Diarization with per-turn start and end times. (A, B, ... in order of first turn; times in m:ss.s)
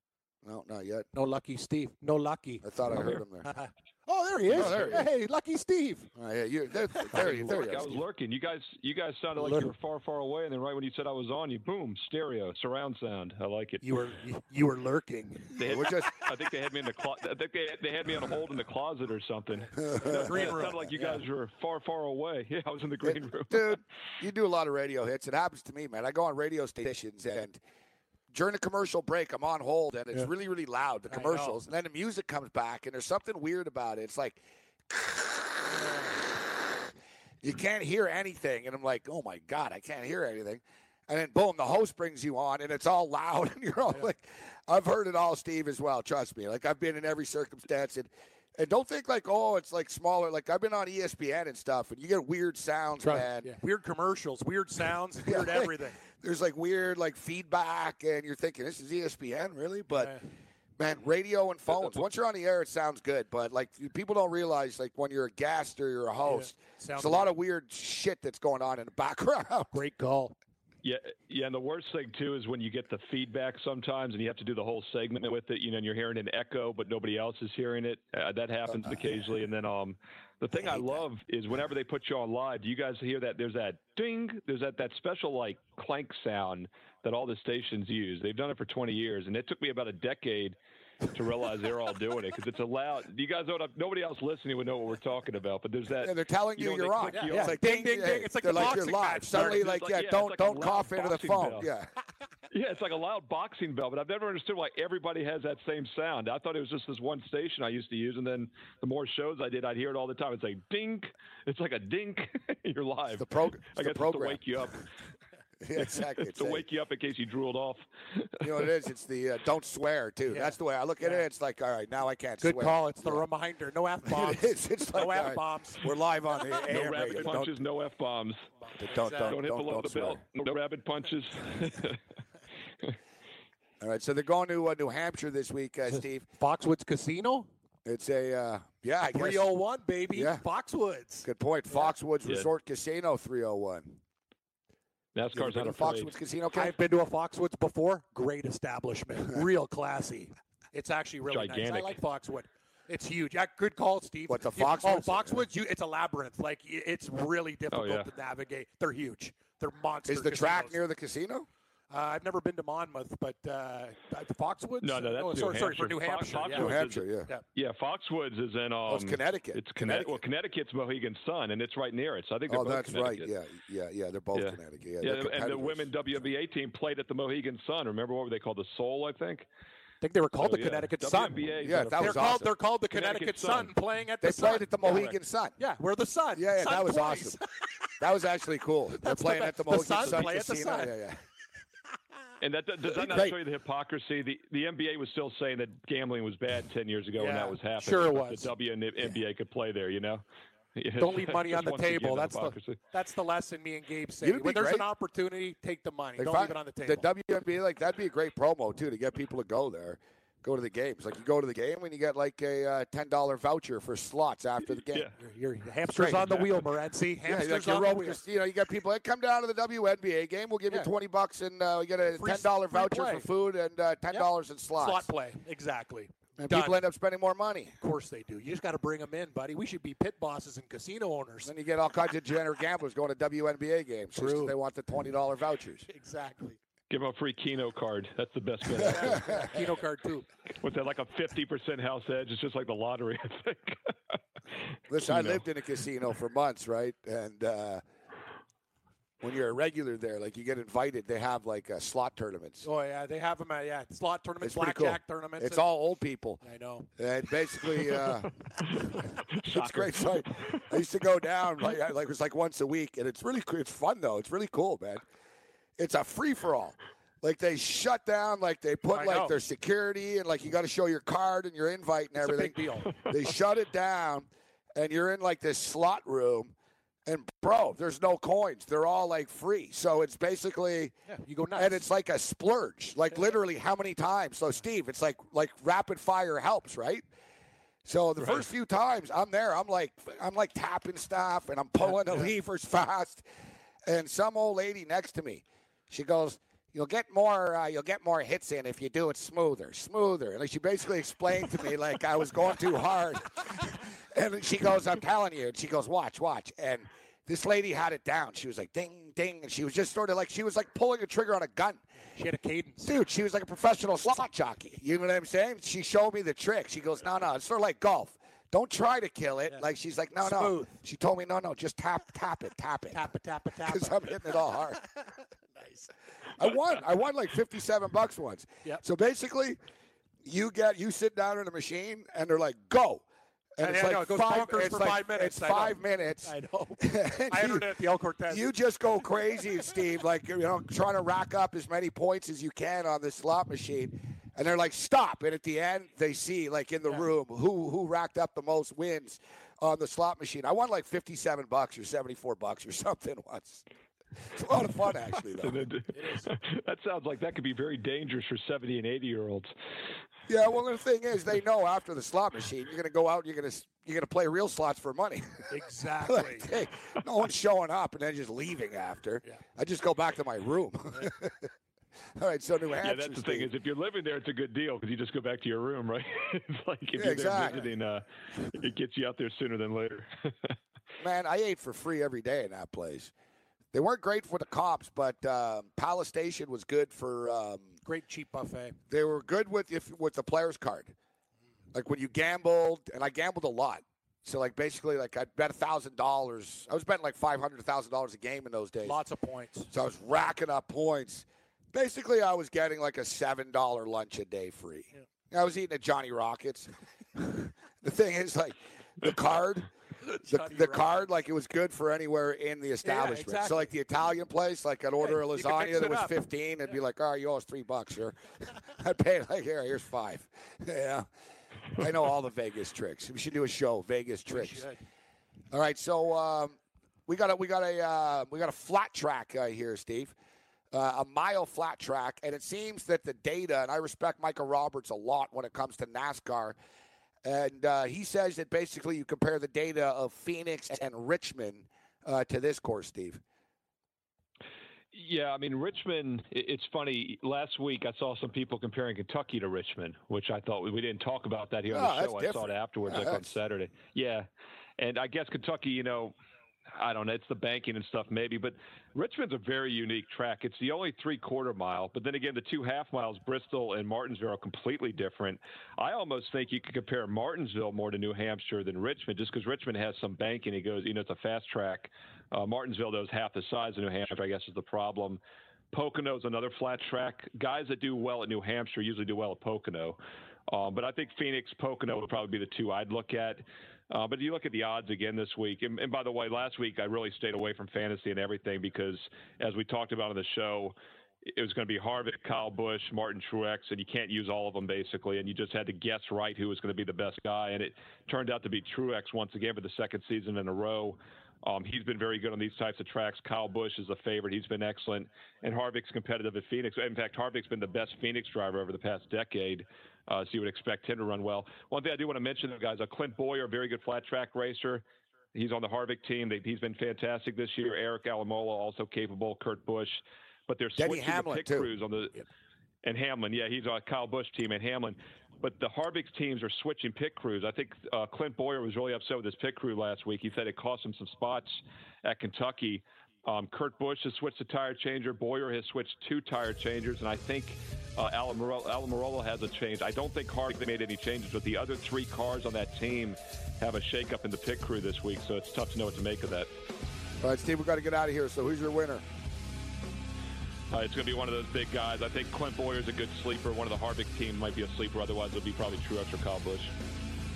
0:00.4-0:01.1 A
0:01.1-0:06.1 B
0:02.6-0:03.5 A
0:04.5-0:05.1 A
0:06.2-0:08.0 A
0:07.0-0:07.6 B
0:07.1-0:13.8 C
0:09.4-0:09.7 B
0:13.8-0:15.6 B
0:15.6-0:23.8 C
0:15.6-0:16.1 A
0:19.8-0:21.2 B
0:19.9-0:20.6 A
0:23.0-0:27.6 A
0:28.3-0:35.8 A
0:31.1-0:31.6 B
0:35.6-0:36.2 B
0:37.4-0:53.5 A
0:53.0-0:56.0 B
0:55.2-1:00.2 A
1:00.0-1:00.2 B
1:00.8-1:09.8 A
1:06.3-1:07.3 B
1:09.7-1:10.4 B
1:10.8-1:30.6 C
1:20.5-1:21.0 A
1:31.1-1:37.6 C
1:36.0-1:41.9 A
1:37.1-1:39.7 B
1:39.3-1:41.7 C
1:42.5-1:54.9 C
1:53.2-1:54.4 A
1:55.6-1:56.6 A
1:55.8-1:58.7 C
1:58.4-2:03.2 A
2:00.3-2:01.3 B
2:02.4-2:05.8 B
2:04.1-2:07.6 A
2:06.6-2:08.4 C
2:08.8-2:10.2 A
2:08.8-2:09.4 B
2:09.3-2:12.0 C
2:13.8-2:16.3 A
2:15.9-2:17.5 B
2:17.8-2:19.5 A
2:19.1-2:21.3 B
2:20.1-2:20.4 A
2:21.2-2:24.0 A
2:25.2-2:26.1 C
2:25.3-2:26.8 A
2:26.5-2:40.8 B
2:31.3-2:32.0 C
2:34.3-2:35.5 A
2:37.7-2:38.1 C
2:40.1-2:41.5 A
2:41.9-2:46.8 B
2:44.8-2:53.3 C
2:46.5-2:47.3 A
2:48.9-2:50.2 A
2:52.5-2:55.9 A
2:54.3-2:59.5 C
3:00.0-3:01.4 B
3:00.4-3:02.4 C
3:01.6-3:02.5 A
3:02.0-3:04.9 B
3:02.9-3:03.7 C
3:04.2-3:05.6 A
3:04.8-3:05.1 C
3:05.6-3:07.4 B
3:06.4-3:07.4 A
3:08.0-3:11.2 A
3:09.0-3:11.0 B
3:12.4-3:20.2 C
3:12.9-3:13.4 A
3:17.2-3:18.5 B
3:20.8-3:22.8 C
3:21.0-3:27.1 B
3:24.2-3:24.9 A
3:26.2-3:35.1 A
3:35.2-3:38.2 B
3:35.9-3:36.4 A
3:36.3-3:36.5 C
3:37.2-3:45.1 A
3:42.1-3:43.3 B
3:44.1-3:46.8 B
3:46.4-3:47.8 A
3:47.8-3:51.5 B
3:51.4-3:55.9 A
3:54.2-3:54.6 B
3:55.9-3:56.6 B
3:56.9-3:59.5 C
3:58.8-3:59.5 A
3:58.8-4:00.3 B
4:00.6-4:03.9 C
4:04.9-4:07.8 A
4:05.0-4:05.4 C
4:09.2-4:12.7 A
4:12.6-4:15.6 B
4:14.4-4:16.4 A
4:16.4-4:16.9 B
4:17.0-4:25.0 A
4:19.3-4:20.6 C
4:25.8-4:36.5 A
4:28.9-4:29.4 B
4:32.2-4:33.0 B
4:37.1-4:40.9 A
4:41.1-4:41.9 B
4:41.6-4:47.1 A
4:47.8-4:53.2 A
4:51.8-4:52.3 B
4:53.9-5:11.8 A
5:12.2-5:12.9 B
5:12.8-5:23.0 A
5:20.2-5:20.7 B
5:22.9-5:24.4 B
5:23.6-5:24.8 A
5:25.6-5:25.9 B
5:26.4-5:29.6 A
5:30.2-5:33.0 A
5:33.6-5:37.7 A
5:33.6-5:38.5 B
5:38.3-5:53.6 A
5:54.3-5:55.6 A
5:55.4-5:59.5 C
5:55.9-5:56.3 B
6:00.3-6:05.5 A
6:05.5-6:06.5 B
6:06.0-6:11.5 A
6:12.2-6:13.5 A
6:12.8-6:20.6 C
6:17.0-6:17.6 A
6:21.0-6:23.1 A
6:23.7-6:27.7 A
6:27.8-6:28.8 B
6:28.9-6:30.9 A
6:31.7-6:39.0 A
6:38.8-6:39.7 B
6:39.7-6:49.7 A
6:50.1-6:51.0 B
6:50.3-7:01.1 A
6:52.8-6:53.7 B
6:55.0-6:56.2 B
7:01.8-7:04.6 A
7:04.3-7:04.8 B
7:05.5-7:10.1 A
7:10.7-7:16.6 A
7:17.2-7:23.2 A
7:24.9-7:34.3 C
7:31.7-7:33.3 A
7:34.8-7:36.1 C
7:36.7-7:55.2 C
7:55.7-8:00.0 C
8:00.5-8:10.8 C
8:11.3-8:42.2 C
8:40.8-8:41.7 A
8:42.8-9:06.5 C
9:07.2-9:09.0 A
9:10.7-9:16.7 C